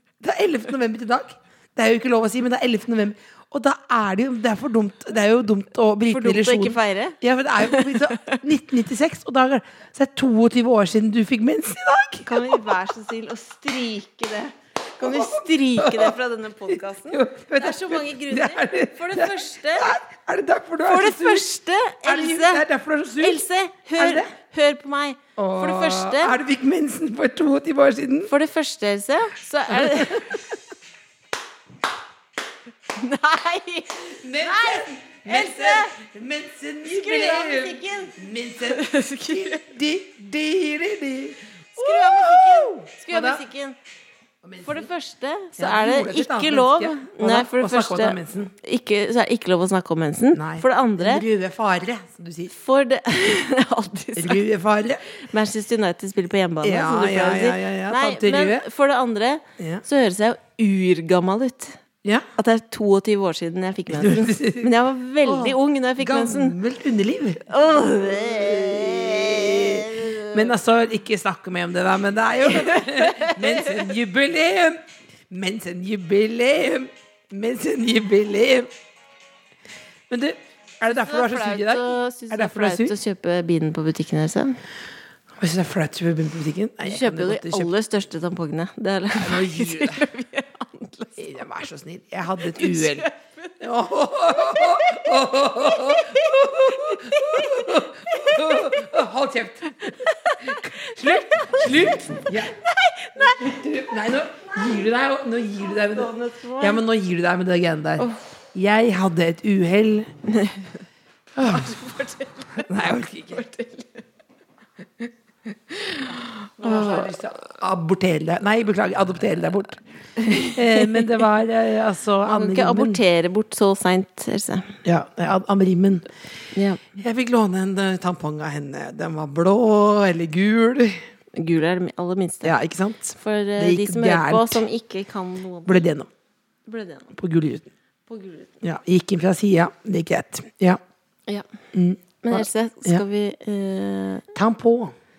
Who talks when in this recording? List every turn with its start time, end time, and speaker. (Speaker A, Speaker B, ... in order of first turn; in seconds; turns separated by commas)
Speaker A: 0.2-12.8, Speaker B: 6.1-8.4, Speaker B: 12.2-19.9, Speaker A: 15.0-16.1, Speaker A: 16.7-21.4, Speaker B: 20.9-22.6, Speaker A: 22.0-23.4, Speaker B: 23.2-26.4, Speaker A: 24.0-24.3, Speaker A: 25.4-28.3, Speaker B: 28.3-30.5, Speaker A: 29.7-30.3, Speaker B: 32.9-36.0, Speaker A: 34.0-43.4, Speaker B: 36.8-39.6, Speaker B: 41.8-43.8, Speaker A: 44.4-44.9, Speaker B: 44.6-51.2, Speaker A: 45.6-48.5, Speaker A: 50.3-52.5, Speaker B: 52.5-54.4, Speaker A: 54.2-55.0, Speaker B: 55.2-61.8, Speaker A: 56.6-58.6, Speaker A: 59.6-59.8, Speaker B: 62.4-66.6, Speaker A: 63.9-64.7, Speaker A: 65.2-67.4, Speaker B: 67.4-70.4, Speaker A: 68.0-78.7, Speaker B: 72.5-73.9, Speaker A: 80.1-83.0, Speaker B: 80.8-84.6, Speaker A: 85.4-87.7, Speaker B: 86.8-91.5, Speaker A: 89.2-90.1, Speaker A: 91.2-93.1, Speaker B: 92.4-93.5, Speaker A: 93.6-102.6, Speaker B: 94.5-98.8, Speaker B: 99.7-103.6, Speaker A: 103.2-110.1, Speaker B: 105.7-106.8, Speaker B: 110.3-110.7, Speaker B: 111.3-114.0, Speaker A: 111.4-111.7, Speaker A: 112.7-113.4, Speaker B: 115.7-117.1, Speaker A: 116.6-119.8, Speaker B: 120.2-121.2, Speaker A: 120.4-123.0, Speaker B: 122.2-124.8, Speaker A: 124.8-126.1, Speaker B: 126.5-126.8, Speaker A: 127.0-131.0, Speaker B: 131.3-132.6, Speaker A: 132.4-134.7, Speaker B: 133.2-135.9, Speaker A: 135.7-136.1, Speaker B: 136.7-137.1, Speaker A: 137.1-137.7, Speaker B: 138.1-138.6, Speaker A: 138.6-140.8, Speaker A: 141.7-143.0, Speaker B: 142.2-144.3, Speaker A: 144.3-144.9